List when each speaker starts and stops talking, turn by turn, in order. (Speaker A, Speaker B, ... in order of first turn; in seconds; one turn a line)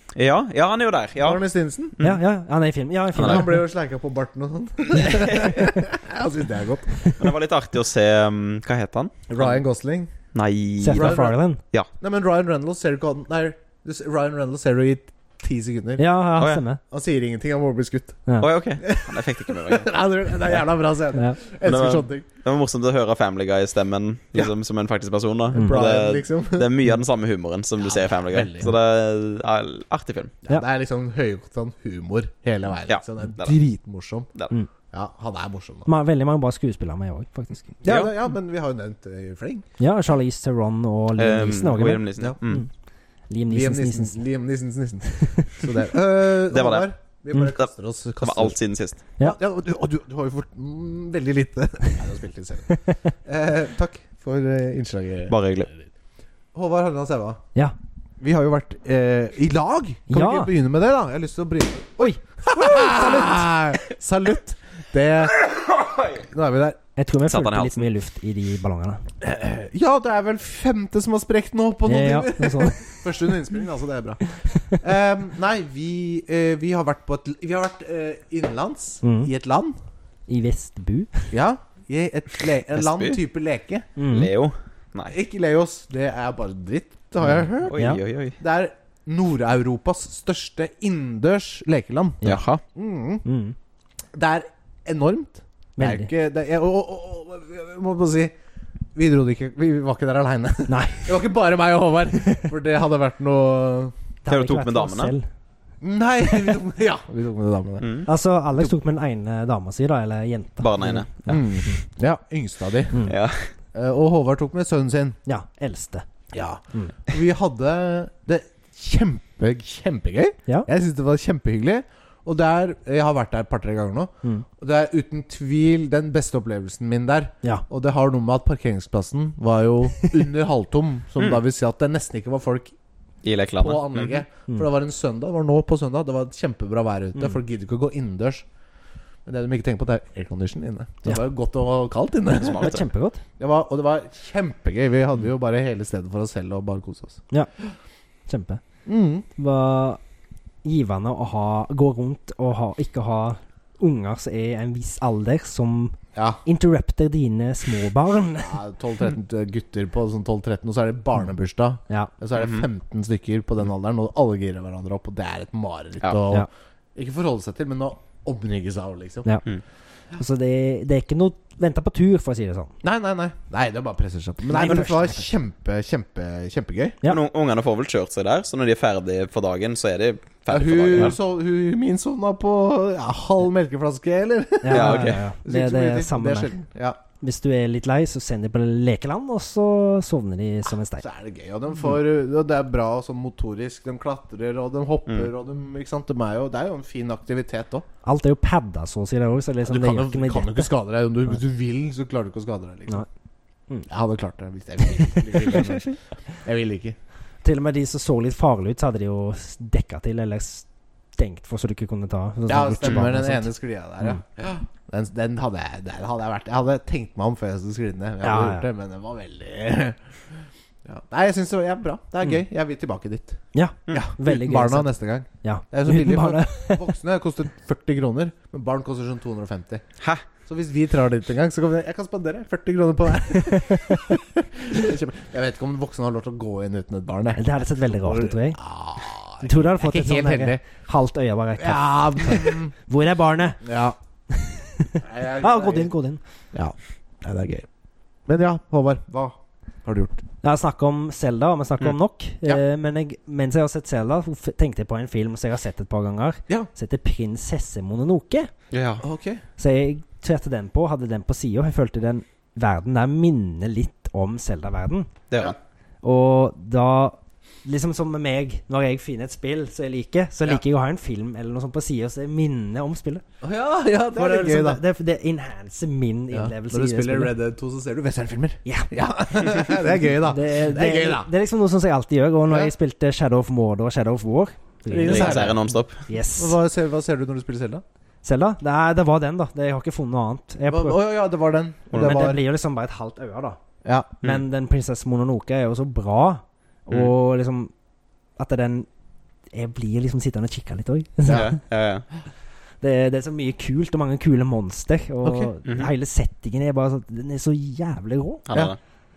Speaker A: 0.1-1.4
Speaker B: 1.2-2.0
Speaker C: 2.0-3.6
Speaker B: 3.2-7.0
Speaker A: 3.2-3.4
Speaker A: 5.1-5.6
Speaker A: 7.2-9.6
Speaker B: 9.3-10.1
Speaker A: 10.3-11.2
Speaker C: 10.8-11.6
Speaker B: 10.9-11.3
Speaker B: 12.0-16.1
Speaker C: 16.0-16.8
Speaker A: 16.4-16.6
Speaker B: 16.9-18.2
Speaker A: 18.4-19.9
Speaker B: 18.8-22.2
Speaker A: 21.6-30.4
Speaker C: 25.5-25.8
Speaker B: 25.5-26.7
Speaker B: 27.8-28.7
Speaker B: 30.5-34.3
Speaker A: 32.9-33.6
Speaker B: 34.9-35.9
Speaker C: 35.9-37.8
Speaker B: 37.8-39.7
Speaker A: 37.9-38.1
Speaker C: 39.8-42.7
Speaker A: 41.2-42.6
Speaker C: 43.3-44.2
Speaker B: 43.5-48.6
Speaker C: 45.3-45.7
Speaker A: 46.5-46.9
Speaker A: 48.2-49.0
Speaker B: 49.2-55.9
Speaker C: 52.7-53.1
Speaker A: 55.3-55.7
Speaker B: 56.5-57.4
Speaker B: 58.2-65.5
Speaker C: 60.1-60.5
Speaker C: 62.7-63.0
Speaker A: 65.8-66.1
Speaker B: 66.2-66.8
Speaker C: 67.0-69.0
Speaker A: 67.3-67.8
Speaker B: 69.2-79.8
Speaker C: 71.9-73.0
Speaker C: 74.3-74.8
Speaker C: 79.0-79.3
Speaker C: 80.3-81.3
Speaker B: 81.3-83.9
Speaker A: 82.7-83.2
Speaker C: 84.0-84.3
Speaker A: 84.1-85.2
Speaker B: 85.1-93.2
Speaker A: 87.3-88.4
Speaker C: 87.8-88.0
Speaker A: 92.2-92.6
Speaker C: 93.2-93.5
Speaker B: 94.1-98.3
Speaker C: 95.8-96.1
Speaker B: 99.0-103.9
Speaker C: 100.7-101.2
Speaker C: 104.2-105.2
Speaker A: 104.3-105.1
Speaker B: 105.8-107.9
Speaker A: 107.8-108.1
Speaker C: 108.1-111.1
Speaker A: 110.6-111.4
Speaker B: 111.3-113.1
Speaker A: 113.1-113.5
Speaker B: 113.7-115.2
Speaker C: 115.3-116.0
Speaker B: 116.3-132.7
Speaker A: 133.2-134.2
Speaker B: 133.6-138.5
Speaker B: 139.3-142.8
Speaker A: 142.3-142.9
Speaker C: 142.6-143.2
Speaker B: 143.4-147.2
Speaker C: 148.3-148.6
Speaker B: 148.9-149.3
Speaker C: 149.4-150.0
Speaker C: 150.6-158.6
Speaker B: 156.2-156.4
Speaker B: 158.4-169.3
Speaker A: 162.4-162.6
Speaker C: 170.2-172.7
Speaker B: 172.8-177.0
Speaker C: 174.5-175.3
Speaker A: 177.1-181.2
Speaker B: 180.5-187.0
Speaker C: 184.6-186.5
Speaker A: 184.7-185.2
Speaker C: 187.2-191.1
Speaker B: 191.0-197.9
Speaker C: 198.0-200.7
Speaker B: 199.6-203.0
Speaker B: 203.9-207.0
Speaker C: 207.4-213.5
Speaker B: 212.5-220.0
Speaker C: 218.2-218.7
Speaker B: 220.8-229.8
Speaker C: 223.5-226.9
Speaker B: 230.5-240.6
Speaker C: 233.3-234.1
Speaker C: 237.4-238.6
Speaker C: 239.4-243.6
Speaker B: 241.6-242.7
Speaker B: 243.6-244.0
Speaker C: 244.3-246.2
Speaker B: 245.0-245.9
Speaker B: 246.5-247.7
Speaker B: 248.3-250.2
Speaker C: 250.4-258.5
Speaker A: 258.7-259.0
Speaker B: 259.0-259.4
Speaker C: 259.6-265.1
Speaker A: 265.3-265.6
Speaker C: 266.0-273.2
Speaker B: 273.4-274.8
Speaker C: 274.1-277.3
Speaker B: 276.3-281.3
Speaker C: 278.6-278.9
Speaker C: 279.5-286.6
Speaker B: 282.5-282.7
Speaker B: 284.9-285.6
Speaker A: 285.1-286.0
Speaker B: 286.4-287.8
Speaker C: 288.2-291.0
Speaker B: 290.7-292.4
Speaker A: 291.9-292.3
Speaker C: 291.9-293.6
Speaker B: 293.8-294.1
Speaker C: 294.2-297.7
Speaker C: 298.4-298.9
Speaker C: 299.5-301.6
Speaker A: 301.3-302.1
Speaker C: 302.8-308.4
Speaker B: 305.2-305.5
Speaker A: 308.5-308.8